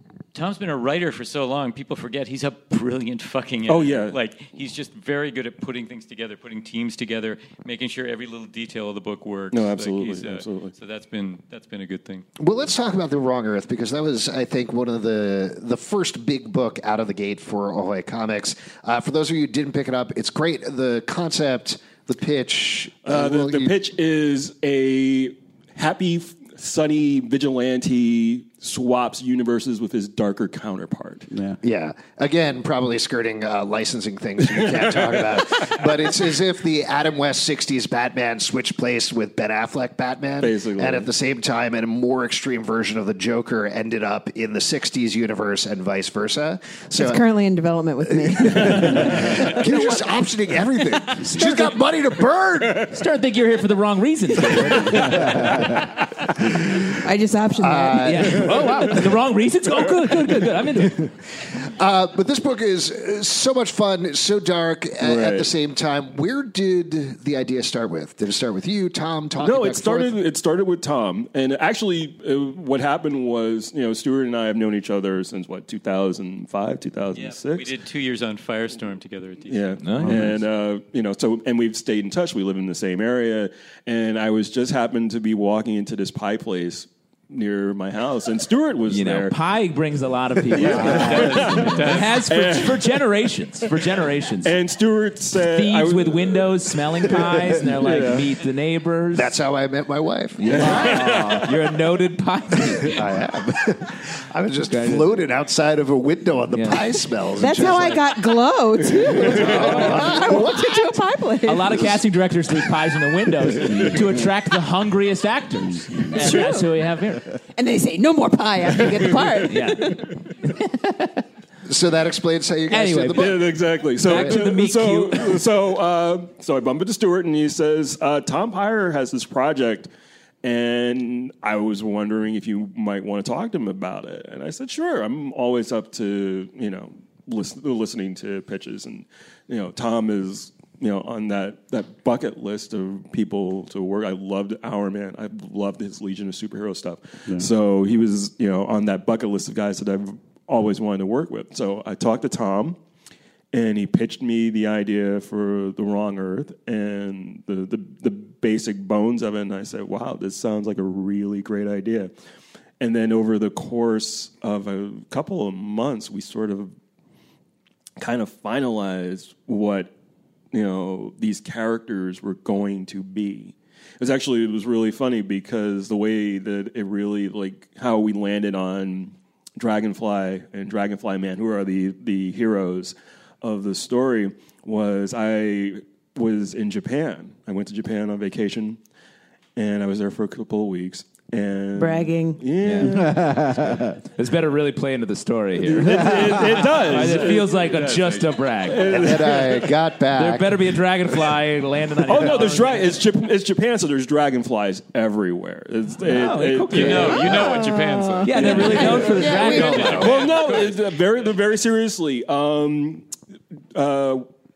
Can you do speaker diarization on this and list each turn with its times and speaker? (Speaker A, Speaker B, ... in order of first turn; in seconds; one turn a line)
Speaker A: 0.3-12.2
Speaker B: 3.7-4.2
Speaker B: 9.5-10.7
Speaker C: 12.4-23.7
Speaker B: 23.0-31.3
Speaker D: 31.3-31.6
Speaker C: 31.6-47.2
Speaker B: 40.4-41.1
Speaker E: 47.0-49.5
Speaker C: 48.2-53.0
Speaker F: 52.9-55.7
Speaker D: 54.9-55.8
Speaker E: 57.0-58.1
Speaker C: 57.6-59.1
Speaker F: 58.0-61.1
Speaker C: 61.7-70.2
Speaker B: 65.0-65.5
Speaker B: 69.4-77.7
Speaker A: 77.1-79.7
Speaker B: 79.5-89.3
Speaker F: 79.8-80.3
Speaker F: 88.9-94.5
Speaker B: 90.4-93.0
Speaker A: 90.9-92.2
Speaker B: 94.4-98.3
Speaker F: 95.4-99.3
Speaker C: 99.1-101.0
Speaker F: 100.4-103.0
Speaker B: 100.5-101.5
Speaker C: 102.8-108.1
Speaker F: 104.7-105.1
Speaker F: 106.5-106.9
Speaker E: 107.4-111.9
Speaker C: 109.2-110.9
Speaker B: 109.3-109.8
Speaker F: 109.4-110.2
Speaker F: 111.5-117.3
Speaker E: 116.1-116.7
Speaker E: 117.5-120.1
Speaker F: 119.4-121.2
Speaker C: 121.7-124.5
Speaker F: 122.7-123.3
Speaker B: 123.2-129.9
Speaker F: 124.0-125.4
Speaker B: 130.4-152.8
Speaker B: 153.5-162.1
Speaker B: 162.8-166.7
Speaker B: 168.0-169.9
Speaker B: 170.5-188.8
Speaker B: 189.6-193.2
Speaker E: 191.8-192.4
Speaker F: 192.6-193.4
Speaker D: 192.8-193.9
Speaker F: 194.2-199.0
Speaker B: 195.6-197.8
Speaker A: 197.6-198.3
Speaker B: 198.6-199.7
Speaker C: 198.9-200.8
Speaker F: 200.1-203.0
Speaker B: 202.0-207.5
Speaker F: 206.0-207.7
Speaker A: 206.7-210.7
Speaker E: 207.1-210.0
Speaker F: 208.2-210.2
Speaker B: 208.3-213.1
Speaker C: 209.1-210.2
Speaker B: 213.7-214.2